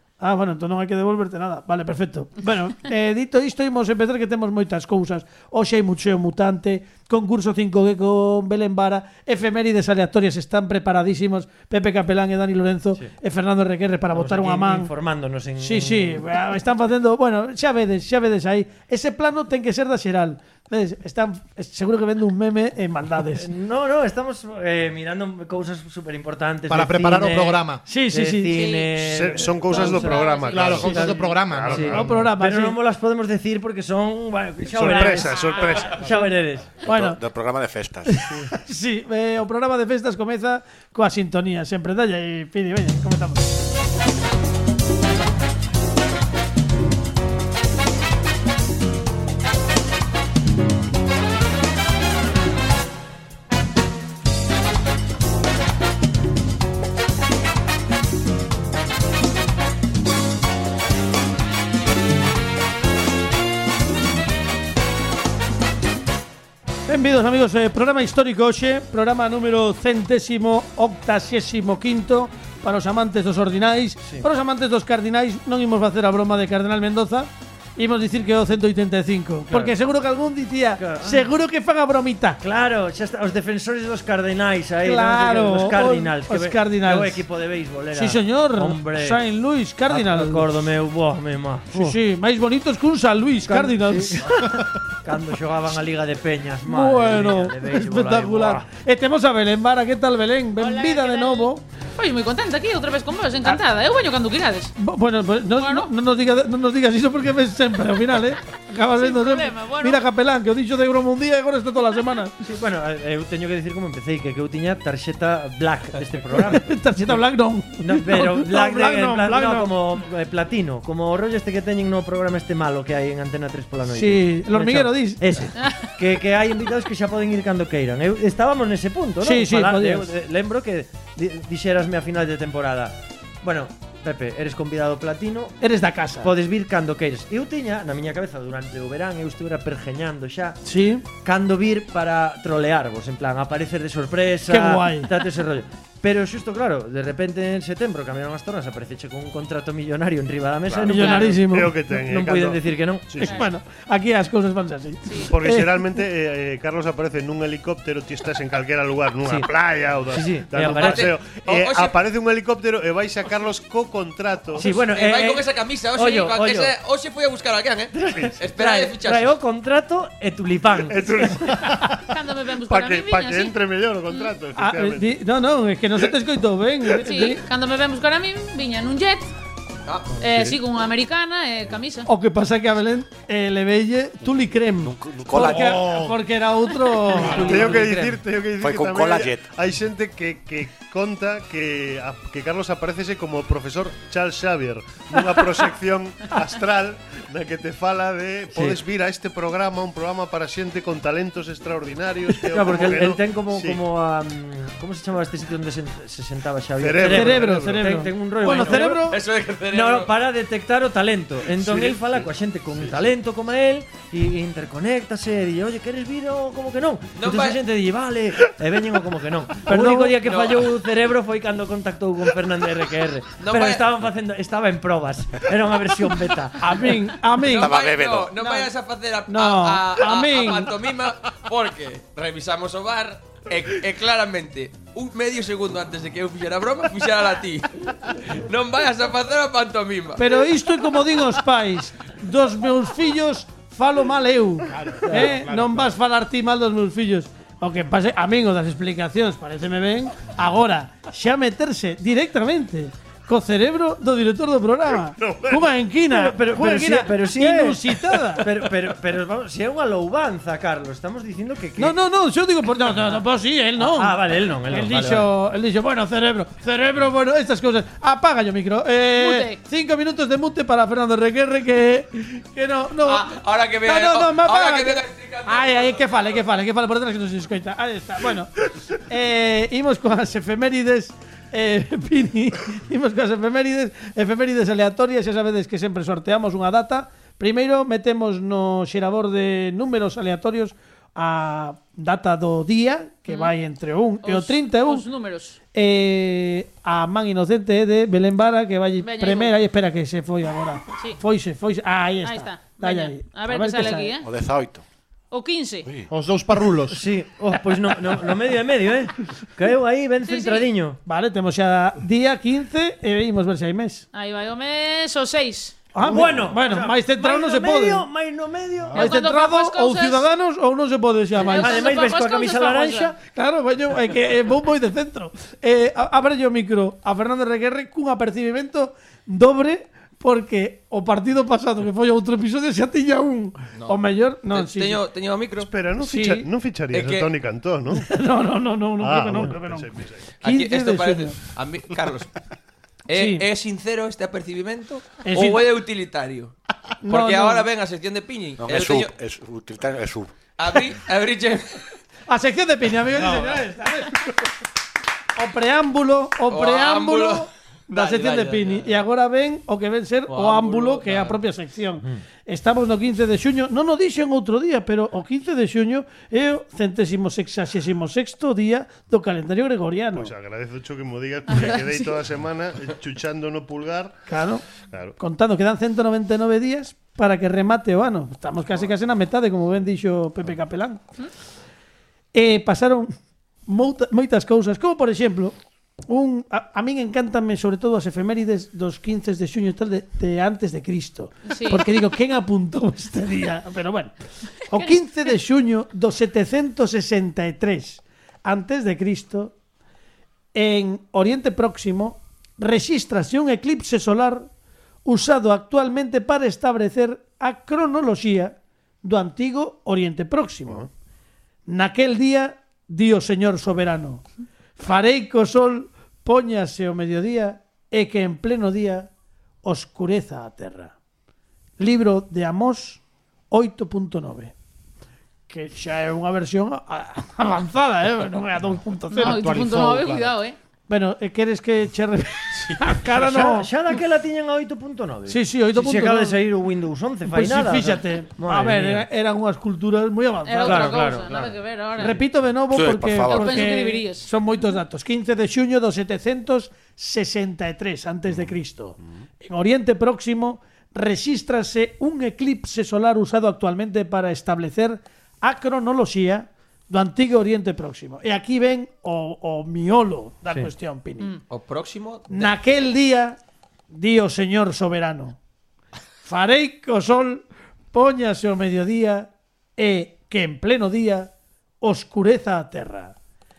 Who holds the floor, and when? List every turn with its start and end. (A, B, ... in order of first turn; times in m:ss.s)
0:00.2-0:14.9 A
0:14.1-0:16.3 B
0:15.6-0:23.5 A
0:23.3-0:36.8 B
0:26.7-0:27.8 C
0:27.8-0:28.6 A
0:28.5-0:28.9 D
0:28.9-0:32.2 E
0:29.9-0:31.2 D
0:30.5-0:32.0 C
0:31.8-0:32.8 A
0:34.7-0:36.1 E
0:35.1-0:35.9 D
0:36.8-0:37.2 A
0:36.8-0:38.2 F
0:38.1-0:43.4 A
1:06.9-1:22.4 A
1:19.5-1:19.7 B
1:20.8-1:21.3 B
1:22.4-1:29.2 B
1:24.8-1:27.2 A
1:27.9-1:30.5 A
1:29.9-1:32.0 B
1:31.7-1:34.2 A
1:33.4-1:38.6 B
1:36.6-1:41.6 A
1:40.6-1:44.7 D
1:44.8-1:52.4 A
1:45.6-1:45.9 D
1:48.9-1:50.0 D
1:52.4-1:56.7 B
1:56.3-1:59.7 A
1:57.8-2:15.6 B
2:03.9-2:05.4 A
2:09.2-2:10.1 A
2:15.6-2:16.3 A
2:16.2-2:20.6 B
2:20.6-2:21.0 A
2:21.1-2:31.4 B
2:24.5-2:25.1 A
2:30.7-2:33.3 E
2:30.8-2:31.7 A
2:31.0-2:31.4 D
2:31.9-2:33.2 B
2:33.2-2:36.0 A
2:33.2-2:33.5 D
2:35.1-2:35.3 D
2:35.3-2:44.6 E
2:39.2-2:39.5 B
2:40.1-2:41.1 B
2:40.6-2:42.0 G
2:44.5-2:46.7 B
2:44.6-2:49.3 G
2:47.9-2:51.6 B
2:50.9-2:55.2 E
2:52.0-2:54.3 D
2:54.6-2:57.4 A
2:57.0-2:59.3 D
2:59.8-3:00.2 G
3:00.2-3:02.1 D
3:00.2-3:00.6 E
3:02.1-3:08.2 A
3:04.8-3:05.9 F
3:05.3-3:06.2 C
3:07.1-3:07.8 C
3:07.3-3:23.8 E
3:08.6-3:09.5 F
3:18.5-3:18.8 B
3:22.4-3:29.1 B
3:26.8-3:27.9 E
3:27.0-3:29.2 A
3:28.5-3:30.1 G
3:29.7-3:47.0 B
3:31.6-3:32.2 E
3:37.2-3:37.6 G
3:39.6-3:40.2 A
3:40.2-3:40.7 G
3:43.4-3:43.8 G
3:46.6-3:47.7 A
3:47.4-4:00.4 G
3:47.6-3:48.4 F
3:48.4-3:48.7 A
3:49.3-3:50.7 A
4:00.2-4:18.5 A
4:04.7-4:05.9 C
4:15.1-4:15.7 E
4:16.1-4:22.0 B
4:21.8-4:55.0 A
4:23.8-4:25.3 B
4:29.2-4:29.6 D
4:33.0-4:36.0 G
4:53.3-4:53.5 D
4:54.2-4:55.6 D
4:55.7-5:04.1 A
4:59.0-4:59.5 D
5:02.2-5:04.3 D
5:04.2-5:04.8 F
5:05.3-5:05.9 D
5:05.8-5:06.1 F
5:06.1-5:07.0 C
5:06.9-5:11.0 B
5:10.2-5:10.7 D
5:11.0-5:14.0 A
5:14.1-5:15.9 D
5:15.9-5:18.0 A
5:16.0-5:19.0 B
5:18.9-5:20.3 D
5:18.9-5:21.9 A
5:21.4-5:23.1 D
5:21.4-5:23.2 B
5:23.3-5:35.0 A
5:34.5-5:35.7 G
5:35.6-5:38.1 E
5:36.0-5:36.5 A
5:36.9-5:37.3 G
5:37.9-5:39.9 A
5:39.0-5:40.2 E
5:40.4-5:42.3 G
5:40.4-5:41.4 A
5:43.1-5:46.5 G
5:43.1-5:43.4 A
5:45.2-5:45.6 A
5:47.0-5:47.7 A
5:47.1-5:49.1 G
5:48.6-5:50.3 F
5:50.6-5:51.8 G
5:52.3-5:54.4 A
5:55.4-6:10.3 A
5:56.5-5:59.0 G
6:00.3-6:01.4 G
6:10.1-6:14.2 E
6:11.5-6:12.1 D
6:14.3-6:14.6 A
6:14.9-6:15.2 E
6:15.2-6:21.1 A
6:22.3-6:23.1 A
6:23.6-6:25.5 A
6:26.1-6:34.1 A
6:31.4-6:31.8 D
6:34.7-6:39.5 A
6:40.5-6:44.5 A
6:45.0-6:50.9 A
6:51.7-6:54.2 A
6:54.8-6:59.1 A
6:59.6-7:00.9 A
7:01.8-7:04.5 A
7:05.5-7:09.4 A
7:09.1-7:10.6 D
7:09.2-7:10.3 C
7:10.9-7:13.7 A
7:13.0-7:19.0 B
7:15.3-7:16.4 A
7:17.2-7:21.1 A
7:20.4-7:22.2 D
7:20.6-7:21.3 B
7:21.3-7:21.6 E
7:22.0-7:41.3 A
7:22.7-7:23.7 F
7:23.3-7:24.3 D
7:41.5-7:42.5 G
7:42.3-7:43.4 A
7:43.9-7:45.4 A
7:46.2-7:51.3 A
7:51.8-7:53.1 A